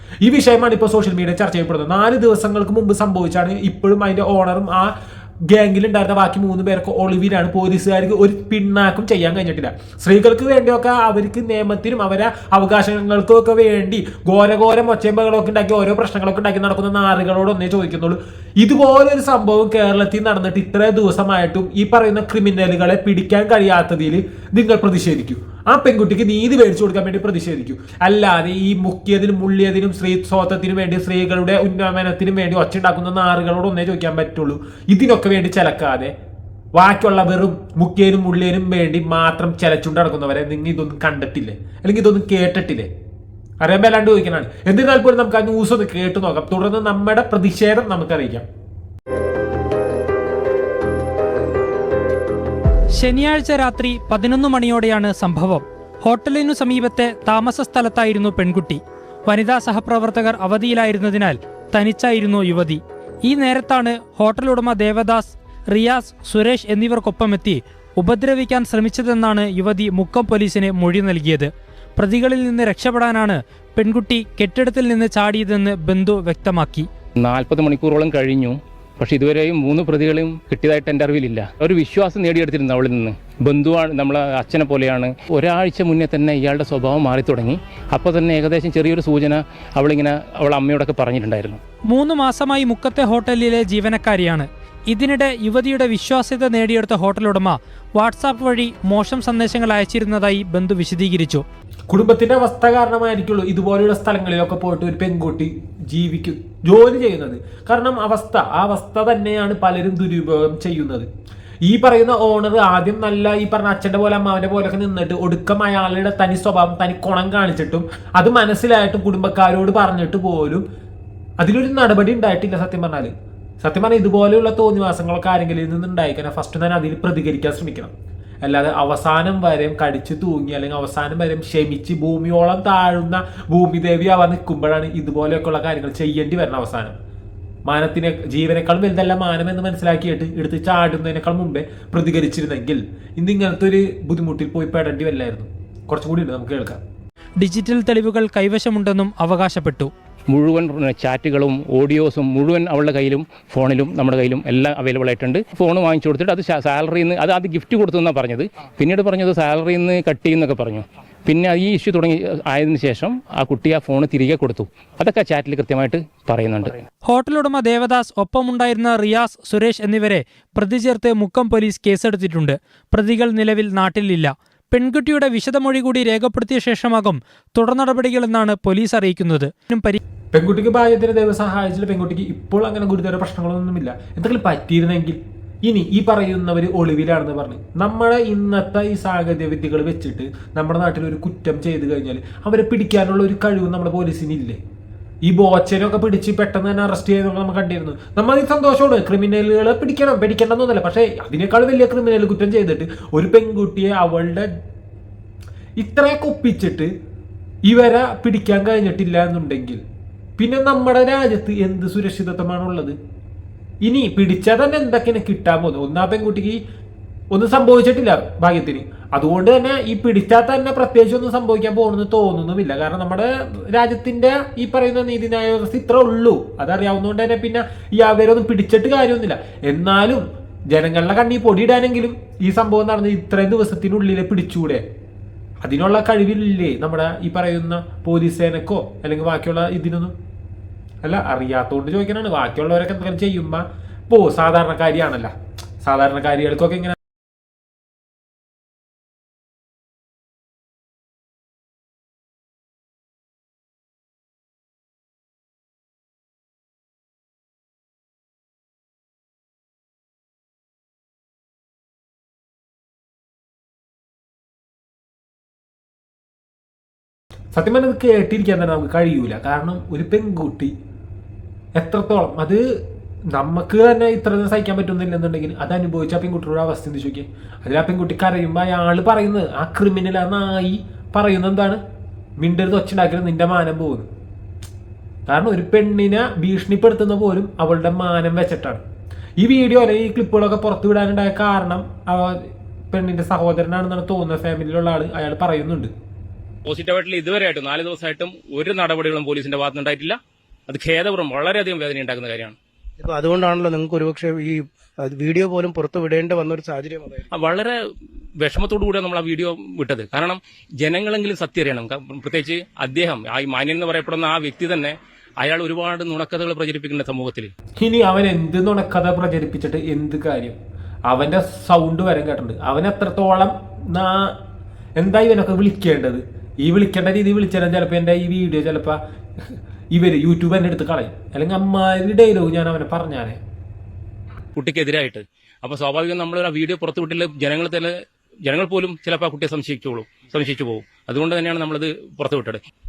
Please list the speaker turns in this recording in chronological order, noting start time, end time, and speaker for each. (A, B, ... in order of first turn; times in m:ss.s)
0:00.2-0:04.9 A
0:05.5-0:36.1 A
0:36.7-0:42.9 A
0:43.6-0:48.4 A
0:52.9-1:16.9 B
1:17.2-1:31.6 C
1:31.9-1:41.4 B
1:41.9-1:51.1 A
1:51.6-2:00.6 A
2:01.4-2:07.9 A
2:08.4-2:17.0 A
2:17.6-2:26.8 A
2:27.4-2:29.9 B
2:30.3-2:46.8 C
2:47.0-3:00.0 B
3:00.3-3:14.6 A
3:15.2-3:24.5 A
3:25.8-3:26.9 A
3:27.6-3:29.8 A
3:30.4-3:32.9 A
3:33.8-3:36.6 A
3:37.3-3:54.8 A
3:55.6-4:00.1 A
4:01.0-4:07.0 A
4:27.5-4:30.7 A
4:31.8-4:32.6 A
4:33.3-4:41.8 A
4:42.4-4:44.1 A
4:45.3-4:48.8 A
4:49.4-4:55.9 A
4:56.6-5:02.6 C
5:03.0-5:07.3 D
5:07.3-5:07.7 C
5:08.4-5:17.5 C
5:17.8-5:20.6 A
5:21.1-5:24.4 A
5:25.0-5:29.0 A
5:29.5-5:33.4 A
5:34.5-5:42.6 C